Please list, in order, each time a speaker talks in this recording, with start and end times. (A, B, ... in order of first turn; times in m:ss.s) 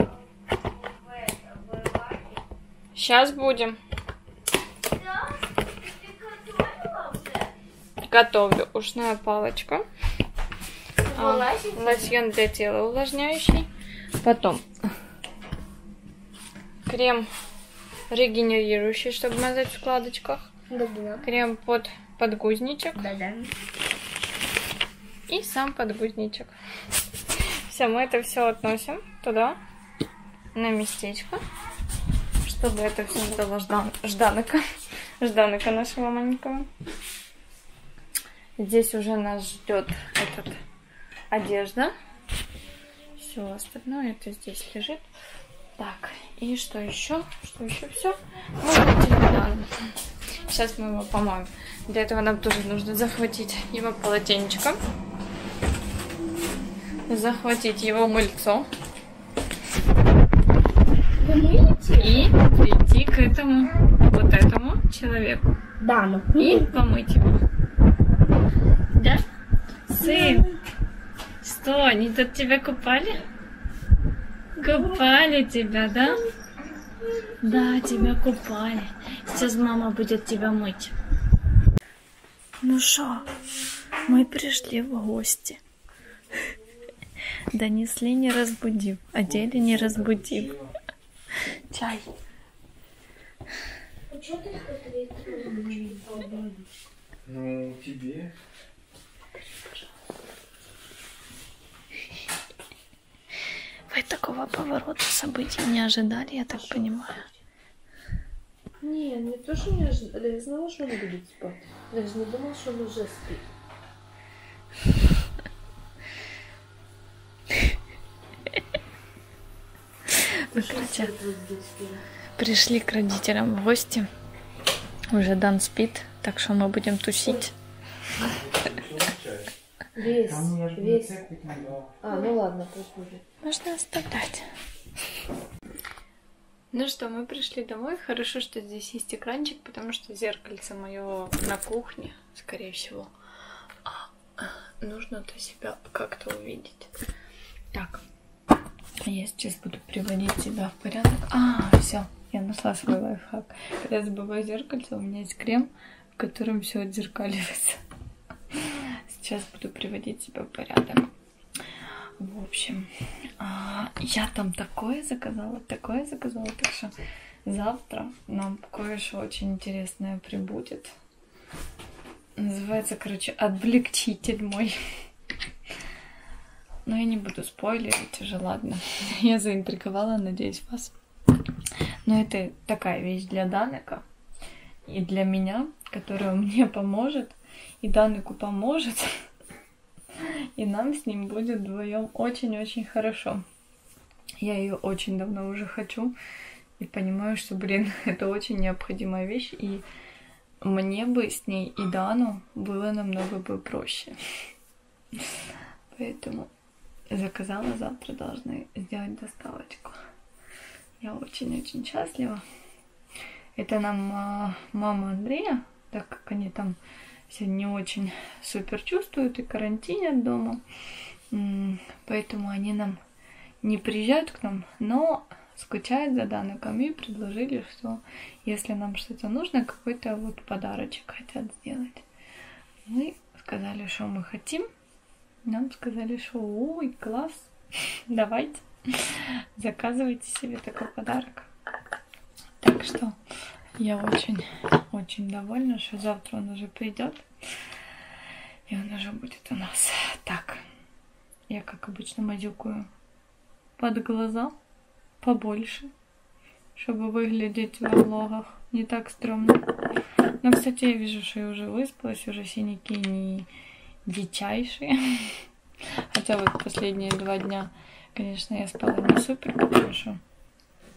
0:01.2-0:02.2 A
0:02.9-0:03.8 B
0:06.2-0:07.4 A
0:08.1-0:09.8 B
0:11.1-0:13.7 B
0:11.1-0:12.1 A
0:14.2-0:14.6 B
0:16.9-0:17.2 B
0:18.1-0:20.5 B
0:20.7-0:21.2 A
0:21.2-0:23.1 B
0:23.0-0:23.5 A
0:25.3-0:26.5 B
0:27.3-0:29.6 B
0:30.5-0:31.4 B
0:32.4-0:34.6 B
0:35.2-0:36.7 B
0:38.6-0:40.6 B
0:41.3-0:41.9 B
0:43.2-0:45.1 B
0:45.8-0:49.7 B
0:50.5-0:54.8 B
0:57.0-0:58.7 B
1:01.2-1:02.3 A
1:02.0-1:05.6 B
1:05.8-1:06.7 A
1:06.4-1:07.4 B
1:08.9-1:09.2 B
1:09.9-1:10.5 B
1:10.0-1:10.5 A
1:11.4-1:13.2 B
1:14.6-1:16.2 B
1:17.4-1:20.9 B
1:22.6-1:23.4 B
1:24.0-1:25.6 B
1:27.5-1:30.5 B
1:29.9-1:30.6 C
1:31.7-1:32.1 B
1:34.1-1:36.1 A
1:35.4-1:36.6 D
1:37.2-1:38.3 C
1:43.9-1:47.2 B
1:46.5-1:47.3 D
1:48.8-1:53.4 D
2:00.1-2:01.1 B
2:00.5-2:02.0 D
2:02.4-2:04.1 B
2:05.1-2:07.5 B
2:08.5-2:09.5 C
2:09.9-2:11.3 D
2:10.2-2:11.9 C
2:12.0-2:13.2 D
2:13.4-2:14.5 B
2:16.7-2:23.1 B
2:23.8-2:26.9 B
2:27.7-2:28.0 B
2:29.0-2:37.8 B
2:38.5-2:41.1 B
2:42.2-2:42.9 B
2:43.4-2:46.9 B
2:47.4-2:50.9 B
2:52.4-2:54.8 B
2:56.8-3:00.9 B
3:02.0-3:04.0 B
3:04.9-3:09.1 B
3:10.2-3:13.4 B
3:14.4-3:16.1 B
3:16.8-3:19.8 B
3:20.6-3:24.1 B
3:25.9-3:26.5 B
3:27.1-3:30.0 B
3:31.0-3:32.4 B
3:33.5-3:36.8 B
3:37.3-3:40.6 B
3:41.3-3:43.0 B
3:43.6-3:52.0 B
3:52.8-3:54.7 B
3:55.4-3:57.5 B
3:58.1-4:01.5 B
4:02.6-4:03.2 B
4:03.8-4:07.2 B
4:08.7-4:10.6 B
4:11.5-4:12.9 B
4:13.8-4:14.5 B
4:15.2-4:15.9 B
4:16.7-4:19.6 B
4:20.4-4:23.5 B
4:24.0-4:25.4 B
4:26.0-4:30.2 B